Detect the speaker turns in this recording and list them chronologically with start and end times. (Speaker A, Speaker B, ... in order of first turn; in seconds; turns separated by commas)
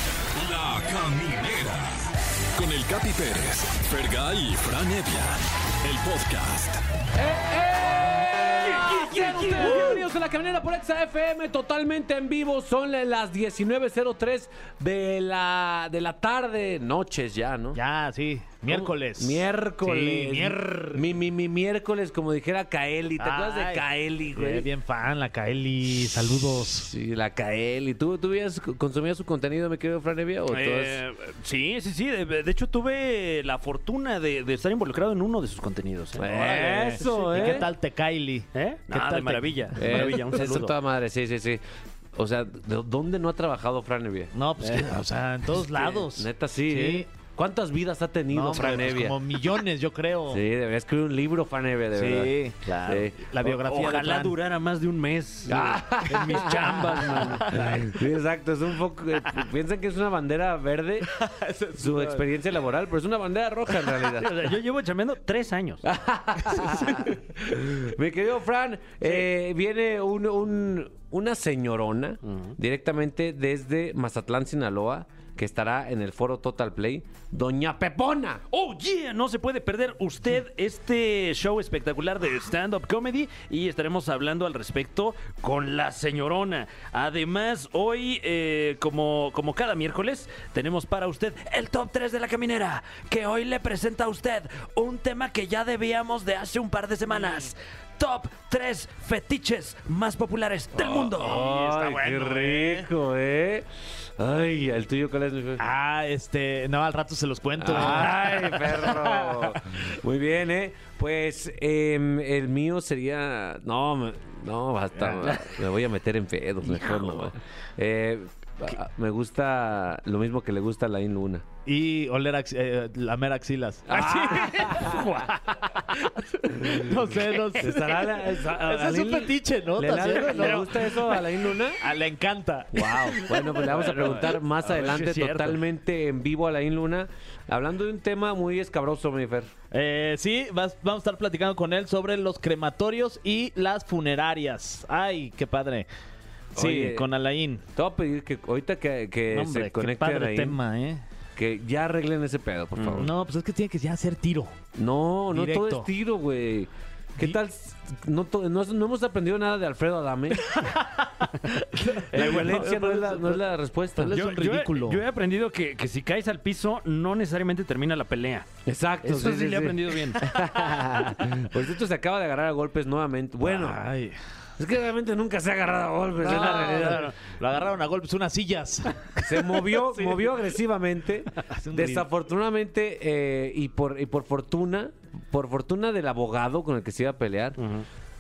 Speaker A: 0.3-2.0, Speaker A: 2.5-6.8, Speaker B: 7.1-17.8, Speaker C: 8.6-10.0, Speaker D: 17.8-21.0, Speaker B: 18.7-24.7, Speaker D: 23.2-26.9, Speaker B: 26.8-31.0, Speaker C: 30.5-37.7, Speaker B: 36.2-37.7, Speaker D: 36.2-40.1, Speaker C: 38.5-40.7, Speaker B: 39.8-41.6, Speaker B: 42.1-44.3, Speaker D: 44.3-47.1, Speaker C: 44.6-44.9, Speaker B: 45.9-49.1, Speaker D: 48.3-50.4, Speaker B: 50.3-52.3, Speaker D: 52.0-54.3, Speaker B: 52.9-53.2, Speaker C: 53.4-57.9, Speaker B: 55.5-61.1, Speaker D: 56.1-58.0, Speaker D: 61.1-62.2, Speaker B: 61.8-64.5, Speaker C: 64.0-65.9, Speaker B: 65.8-78.4, Speaker C: 66.5-67.1, Speaker C: 72.2-72.5, Speaker C: 78.5-101.6, Speaker B: 100.7-103.7, Speaker D: 101.4-102.9, Speaker B: 104.2-105.6, Speaker D: 105.6-109.5, Speaker B: 107.6-121.4, Speaker D: 114.9-115.2, Speaker C: 116.6-117.3, Speaker D: 121.7-125.0, Speaker B: 123.9-125.1, Speaker C: 124.6-126.0, Speaker D: 125.9-130.9, Speaker B: 127.5-131.8, Speaker C: 130.1-131.0, Speaker D: 131.8-133.3, Speaker B: 132.7-139.5, Speaker C: 133.6-135.6, Speaker D: 139.7-145.9, Speaker B: 146.5-147.1, Speaker D: 146.6-147.6, Speaker B: 147.8-150.6, Speaker D: 149.3-151.0, Speaker B: 151.4-153.1, Speaker C: 152.8-153.1, Speaker D: 153.0-154.6, Speaker B: 154.8-160.6, Speaker D: 155.3-155.9, Speaker D: 161.0-165.0, Speaker C: 162.1-162.8, Speaker B: 162.1-164.2, Speaker C: 164.1-168.5, Speaker B: 168.7-173.8, Speaker C: 169.0-170.2, Speaker D: 173.4-174.2, Speaker B: 174.6-177.1, Speaker D: 176.2-180.3, Speaker B: 179.2-187.6, Speaker D: 181.5-182.1, Speaker C: 187.6-187.9